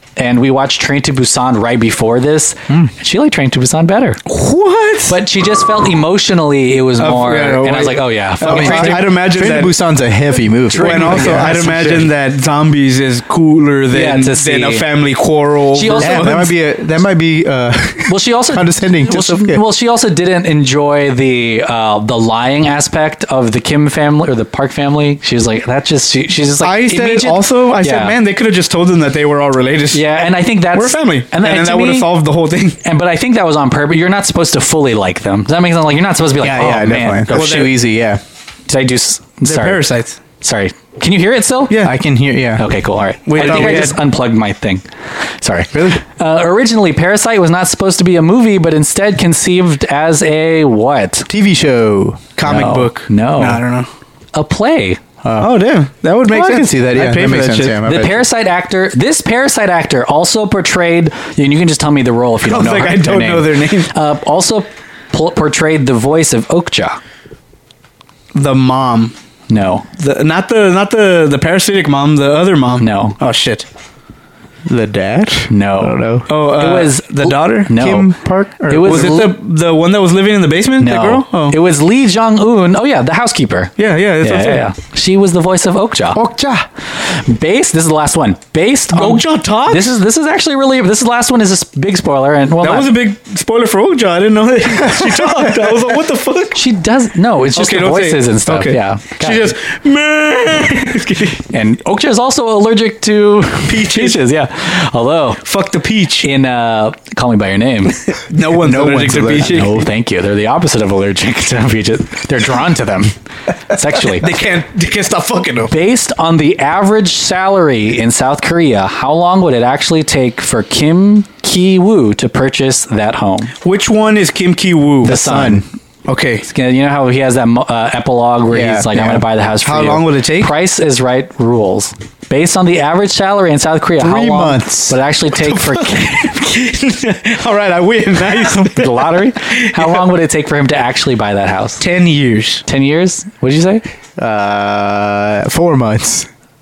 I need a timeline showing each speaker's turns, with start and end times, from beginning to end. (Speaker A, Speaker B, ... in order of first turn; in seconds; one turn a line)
Speaker A: 0.2-4.2
Speaker B: 4.3-5.2
Speaker A: 5.1-9.1
Speaker B: 7.0-9.8
Speaker C: 8.4-12.1
Speaker A: 10.7-12.1
Speaker B: 10.7-16.5
Speaker A: 13.9-14.8
Speaker A: 15.8-16.3
Speaker C: 16.0-19.6
Speaker A: 18.1-28.2
Speaker B: 26.6-30.0
Speaker A: 29.9-32.1
Speaker B: 30.7-32.8
Speaker A: 32.8-37.7
Speaker C: 36.4-38.2
Speaker B: 37.3-37.8
Speaker A: 38.7-39.8
Speaker B: 39.4-40.2
Speaker A: 40.4-41.8
Speaker B: 41.7-42.0
Speaker C: 41.8-42.6
Speaker A: 42.6-51.3
Speaker B: 43.3-44.0
Speaker C: 43.4-43.8
Speaker C: 45.7-46.0
Speaker C: 51.3-52.3
Speaker B: 52.4-53.9
Speaker A: 52.5-53.6
Speaker A: 54.4-55.0
Speaker C: 55.2-55.6
Speaker B: 55.4-57.8
Speaker C: 56.3-58.2
Speaker A: 57.9-67.0
Speaker B: 62.5-63.9
Speaker B: 68.3-69.2
Speaker A: 69.5-69.8
Speaker B: 70.0-73.7
Speaker A: 72.8-73.2
Speaker C: 74.7-76.3
Speaker A: 75.5-78.1
Speaker B: 76.3-77.7
Speaker C: 77.8-79.2
Speaker A: 78.7-79.3
Speaker B: 78.8-81.6
Speaker A: 80.8-86.2
Speaker B: 83.8-84.7
Speaker C: 86.2-86.7
Speaker A: 87.0-92.9
Speaker B: 88.9-90.0
Speaker B: 92.6-96.6
Speaker C: 95.0-95.5
Speaker A: 96.5-99.5
Speaker B: 97.6-101.4
Speaker A: 101.5-105.4
Speaker B: 103.7-104.2
Speaker B: 105.4-106.3
Speaker A: 106.2-108.0
Speaker B: 108.2-109.8
Speaker C: 108.6-109.7
Speaker A: 109.4-113.1
Speaker A: 113.7-114.3
Speaker B: 114.0-115.7
Speaker A: 115.7-123.5
Speaker B: 123.6-125.5
Speaker A: 125.0-125.7
Speaker C: 125.1-125.6
Speaker B: 126.1-126.5
Speaker A: 126.4-136.5
Speaker C: 128.5-129.2
Speaker B: 129.6-130.5
Speaker C: 134.0-135.0
Speaker B: 135.5-140.1
Speaker A: 138.4-141.8
Speaker B: 141.8-142.7
Speaker A: 142.7-143.8
Speaker C: 144.2-146.3